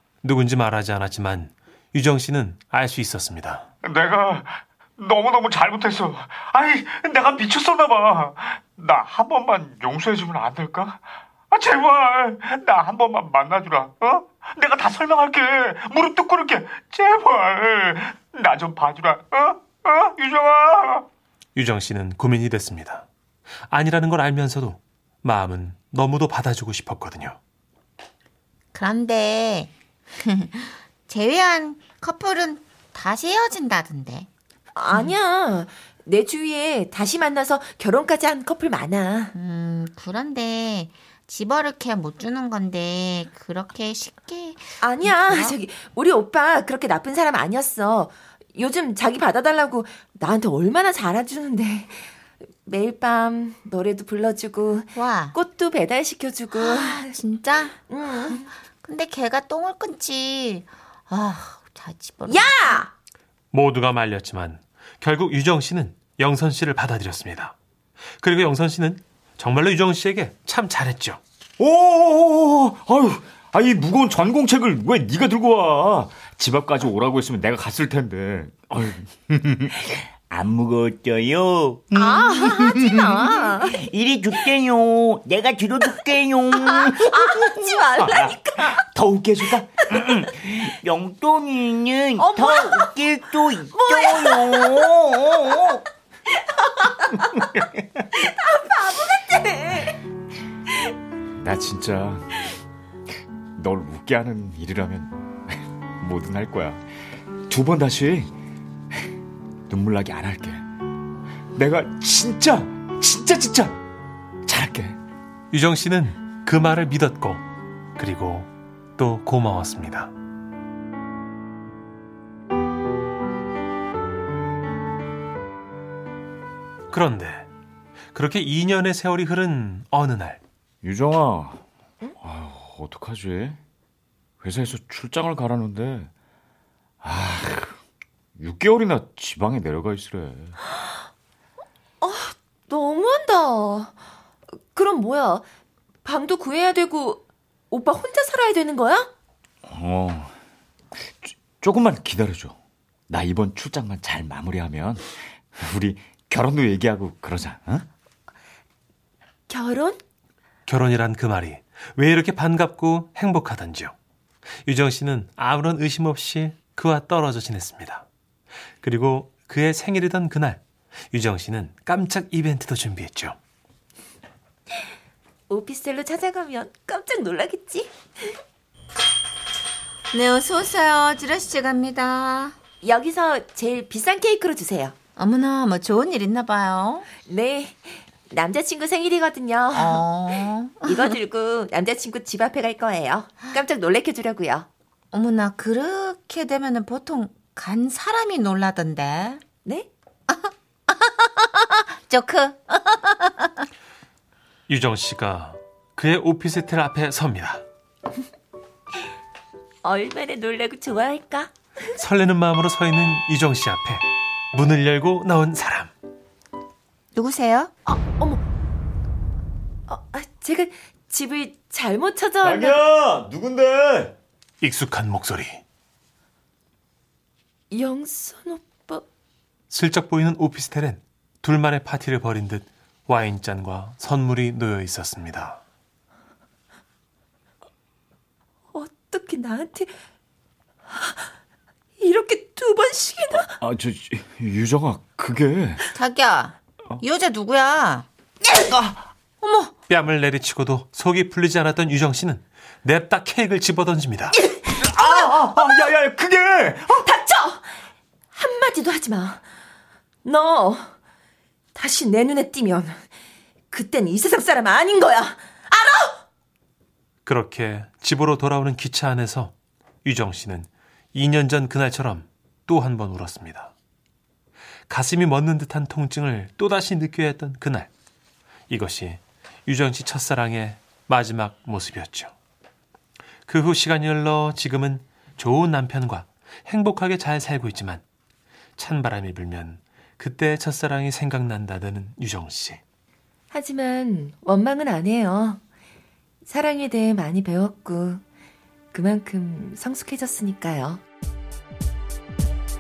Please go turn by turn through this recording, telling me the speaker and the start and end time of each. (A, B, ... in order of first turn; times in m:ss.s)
0:00.2-0:03.7 A
0:03.8-0:21.1 B
0:21.6-0:23.1 A
0:23.7-0:27.4 A
0:28.7-0:34.3 C
0:34.7-0:39.3 D
0:39.3-0:45.6 C
0:44.8-0:52.1 D
0:52.6-0:57.2 D
0:54.9-0:55.4 C
0:56.5-1:02.8 C
0:57.9-0:58.4 D
1:02.3-1:02.9 D
1:03.5-1:07.6 A
1:08.2-1:11.2 A
1:11.6-1:20.4 B
1:20.4-1:28.0 E
1:21.9-1:23.8 D
1:26.5-1:28.8 D
1:28.0-1:29.6 B
1:29.6-1:35.8 E
1:32.2-1:33.0 D
1:33.7-1:35.8 D
1:36.3-1:37.4 D
1:37.5-1:37.8 B
1:38.1-1:40.0 D
1:41.4-1:42.5 B
1:43.6-1:46.8 B
1:47.5-1:48.3 B
1:49.7-1:50.6 B
1:51.6-1:53.8 B
1:54.5-1:55.0 B
1:55.5-1:57.4 A
1:58.0-2:00.1 A
2:06.9-2:07.5 A
2:08.1-2:10.4 A
2:10.8-2:11.6 B
2:12.2-2:13.6 B
2:14.4-2:16.1 B
2:17.0-2:17.8 B
2:18.4-2:20.6 B
2:22.0-2:24.0 D
2:24.7-2:25.4 D
2:26.0-2:29.1 D
2:29.7-2:30.3 B
2:31.0-2:32.6 B
2:33.1-2:37.9 B
2:39.5-2:40.0 D
2:40.7-2:43.9 A
2:44.6-2:48.0 A
2:48.8-2:50.6 A
2:51.1-2:53.4 A
2:55.5-2:58.3 D
3:00.1-3:02.6 C
3:02.8-3:05.0 D
3:05.2-3:07.1 C
3:07.2-3:10.0 D
3:09.7-3:11.1 C
3:10.8-3:14.7 D
3:15.1-3:19.4 C
3:19.6-3:19.9 D
3:20.3-3:23.6 C
3:24.7-3:27.6 A
3:29.8-3:31.5 D
3:32.0-3:35.9 A
3:37.1-3:37.7 C
3:37.9-3:38.4 D
3:39.9-3:42.8 D
3:42.4-3:44.2 B
3:44.6-3:45.6 A
3:47.7-3:49.0 D
3:49.7-3:55.6 A
3:58.7-3:59.9 D
4:00.9-4:01.3 D
4:02.0-4:03.5 D
4:03.5-4:05.9 B
4:05.9-4:08.7 C
4:09.4-4:09.7 C
4:09.9-4:14.4 A
4:14.5-4:15.1 D
4:14.7-4:17.1 B
4:17.0-4:17.7 D
4:18.3-4:19.4 D
4:20.2-4:20.9 D
4:21.8-4:23.0 D
4:23.7-4:26.2 D
4:27.3-4:29.5 A
4:30.0-4:33.7 A
4:34.9-4:37.9 A
4:38.7-4:42.3 A
4:43.5-4:48.0 A
4:48.8-4:52.8 A
4:53.5-4:55.6 D
4:56.4-4:58.2 D
4:58.9-5:01.0 D